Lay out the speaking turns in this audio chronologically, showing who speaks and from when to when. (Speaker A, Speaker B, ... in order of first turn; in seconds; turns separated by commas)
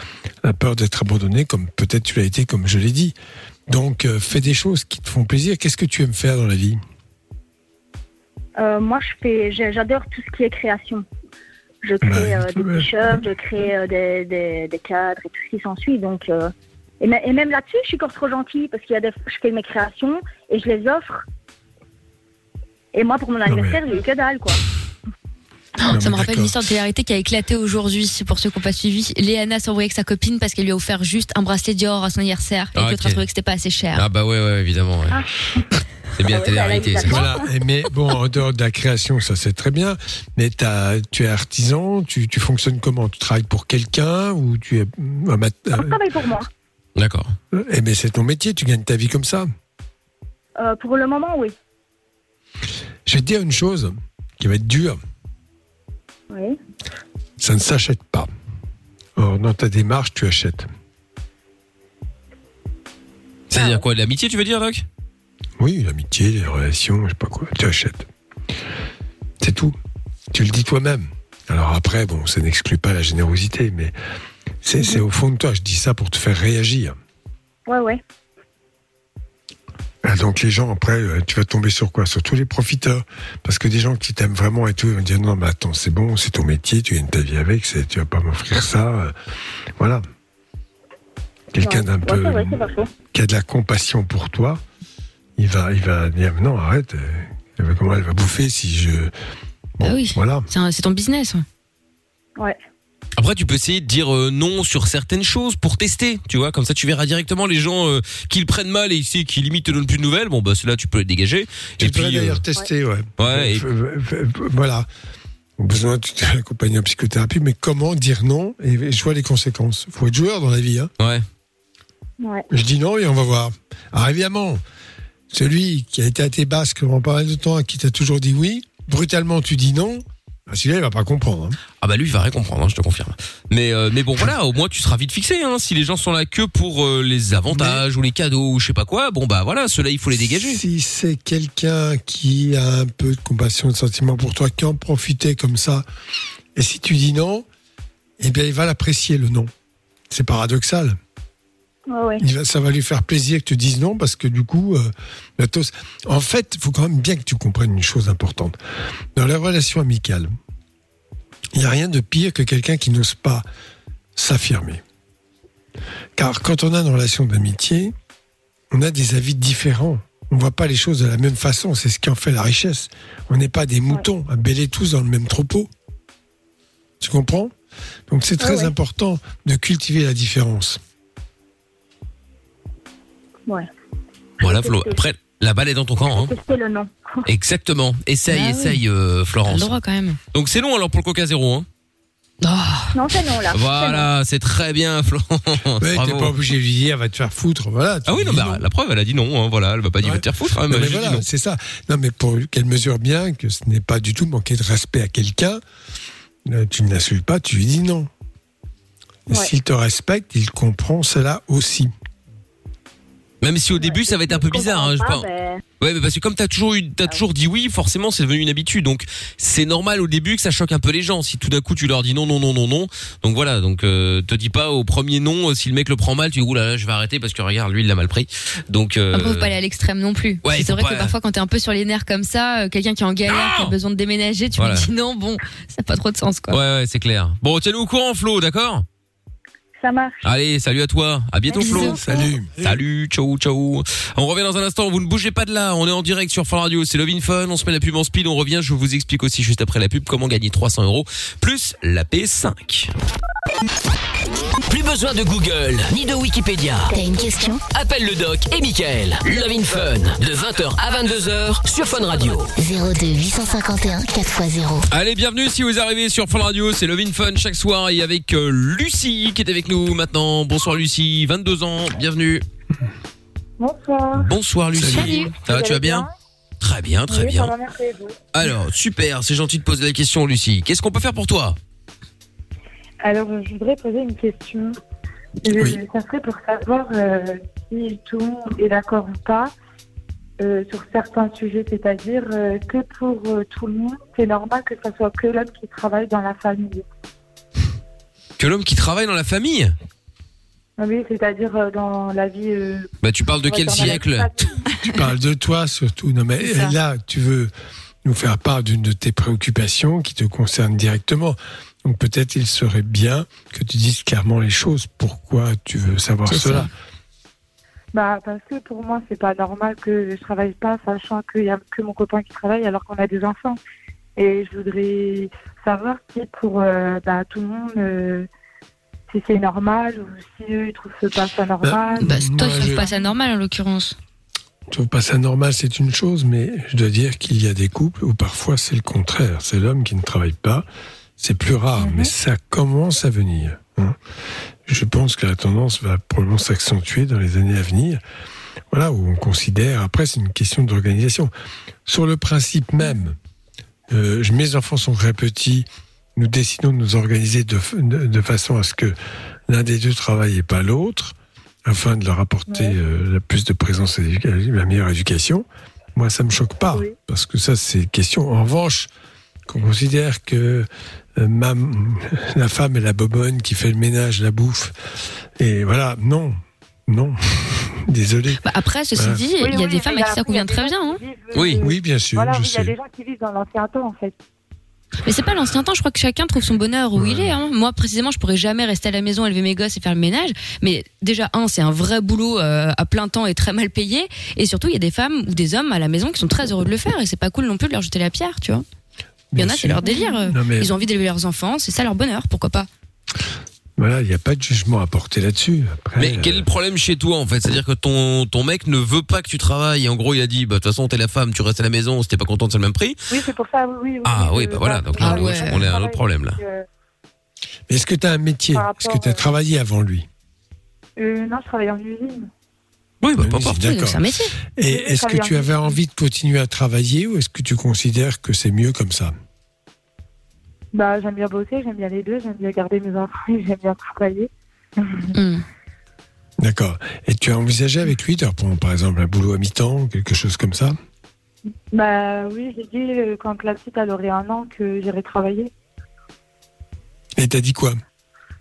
Speaker A: 0.4-3.1, Speaker A: 3.7-6.8, Speaker B: 8.6-11.0, Speaker B: 11.8-21.2, Speaker A: 12.0-13.2, Speaker B: 22.9-24.6, Speaker A: 23.4-23.8, Speaker C: 25.8-34.0, Speaker A: 25.9-26.6, Speaker D: 32.7-33.2, Speaker D: 34.0-35.2, Speaker D: 36.2-37.3, Speaker B: 36.2-37.4, Speaker A: 37.0-46.0, Speaker B: 45.7-46.5, Speaker D: 47.0-47.3, Speaker A: 47.5-49.5, Speaker B: 50.6-51.5, Speaker A: 53.0-55.0, Speaker B: 56.3-56.6, Speaker A: 57.4-58.3, Speaker A: 59.2-60.7, Speaker D: 63.5-64.8, Speaker B: 63.5-63.8, Speaker A: 65.6-68.1, Speaker A: 69.4-69.7, Speaker A: 70.3-73.9, Speaker A: 74.6-76.9, Speaker B: 77.7-78.0, Speaker A: 80.0-89.1, Speaker A: 89.8-90.0, Speaker A: 91.5-92.6, Speaker B: 91.6-92.9, Speaker A: 93.1-94.6, Speaker A: 95.4-99.1, Speaker A: 99.8-100.5, Speaker C: 99.8-101.4, Speaker D: 103.2-112.4, Speaker A: 111.8-114.9, Speaker D: 113.2-113.7, Speaker A: 115.6-120.9, Speaker D: 121.0-121.2, Speaker B: 122.2-122.5, Speaker A: 122.5-124.6, Speaker A: 125.3-131.6, Speaker D: 131.8-140.6, Speaker A: 137.5-137.8, Speaker A: 140.1-145.8, Speaker A: 146.5-147.4, Speaker A: 148.2-149.5, Speaker A: 150.1-151.0, Speaker B: 151.9-152.2, Speaker A: 152.2-158.6, Speaker A: 159.1-160.3, Speaker A: 161.5-163.4, Speaker A: 164.2-164.8, Speaker A: 166.2-167.9, Speaker A: 168.7-175.7, Speaker A: 177.0-177.5, Speaker A: 178.1-180.8, Speaker B: 178.4-178.7, Speaker B: 184.4-185.0, Speaker D: 184.4-186.3, Speaker B: 186.1-187.2, Speaker D: 187.2-189.8, Speaker C: 188.3-188.8, Speaker C: 189.5-190.2, Speaker D: 190.3-191.7, Speaker C: 192.4-192.9, Speaker B: 192.9-194.1, Speaker D: 193.5-196.3, Speaker A: 195.8-198.6, Speaker D: 198.1-201.2, Speaker A: 200.0-205.6, Speaker A: 206.4-208.1, Speaker A: 209.3-211.9, Speaker D: 213.4-215.2, Speaker B: 213.8-215.6, Speaker D: 215.8-229.5, Speaker C: 229.1-236.6, Speaker D: 230.4-231.1, Speaker D: 233.2-233.7, Speaker D: 234.6-234.9, Speaker D: 236.5-238.8, Speaker B: 239.8-240.3, Speaker D: 240.2-252.9, Speaker C: 241.5-242.3, Speaker A: 241.6-242.5, Speaker E: 254.7-256.9, Speaker F: 256.9-257.6, Speaker E: 257.7-262.5, Speaker F: 262.6-264.9, Speaker D: 264.9-272.4, Speaker G: 273.6-274.3, Speaker D: 274.1-276.1, Speaker A: 274.7-275.1, Speaker C: 274.9-275.3, Speaker G: 275.3-276.1, Speaker D: 276.6-277.5, Speaker G: 277.1-278.1, Speaker D: 278.3-281.6, Speaker G: 283.0-284.7, Speaker G: 285.4-289.5, Speaker A: 285.5-285.8, Speaker G: 290.4-296.8, Speaker D: 298.4-299.7, Speaker G: 300.8-304.6, Speaker D: 303.0-304.3, Speaker A: 304.8-307.5, Speaker C: 306.4-306.7, Speaker A: 308.0-316.7, Speaker C: 316.3-316.7, Speaker G: 317.9-323.6, Speaker G: 324.1-328.3, Speaker G: 329.1-333.1, Speaker A: 331.6-332.8, Speaker C: 332.0-333.9, Speaker A: 334.7-340.6, Speaker A: 341.2-344.0, Speaker G: 341.8-342.1, Speaker A: 344.6-348.0, Speaker A: 348.7-351.3, Speaker A: 351.9-353.2, Speaker A: 353.9-358.9, Speaker A: 359.5-361.1, Speaker A: 361.6-368.9, Speaker G: 362.5-362.8, Speaker A: 369.5-374.7, Speaker A: 375.4-378.4, Speaker C: 378.4-381.0, Speaker A: 378.9-379.2, Speaker G: 379.4-384.1, Speaker D: 381.3-381.6, Speaker A: 381.6-382.7, Speaker C: 385.0-398.6, Speaker A: 386.9-387.3, Speaker A: 399.3-400.7, Speaker C: 399.4-402.7, Speaker G: 399.9-400.3, Speaker A: 403.8-406.5, Speaker D: 406.0-413.0, Speaker G: 413.1-416.6, Speaker D: 414.0-416.4, Speaker C: 415.0-415.6, Speaker A: 417.7-420.1, Speaker G: 418.5-419.2, Speaker G: 421.0-422.3, Speaker D: 423.0-423.6, Speaker A: 423.2-424.0, Speaker C: 423.5-424.4, Speaker A: 424.5-429.1, Speaker G: 424.7-425.6, Speaker G: 430.7-435.1, Speaker C: 435.1-435.4, Speaker A: 436.4-440.8, Speaker G: 441.7-445.5, Speaker A: 447.2-447.8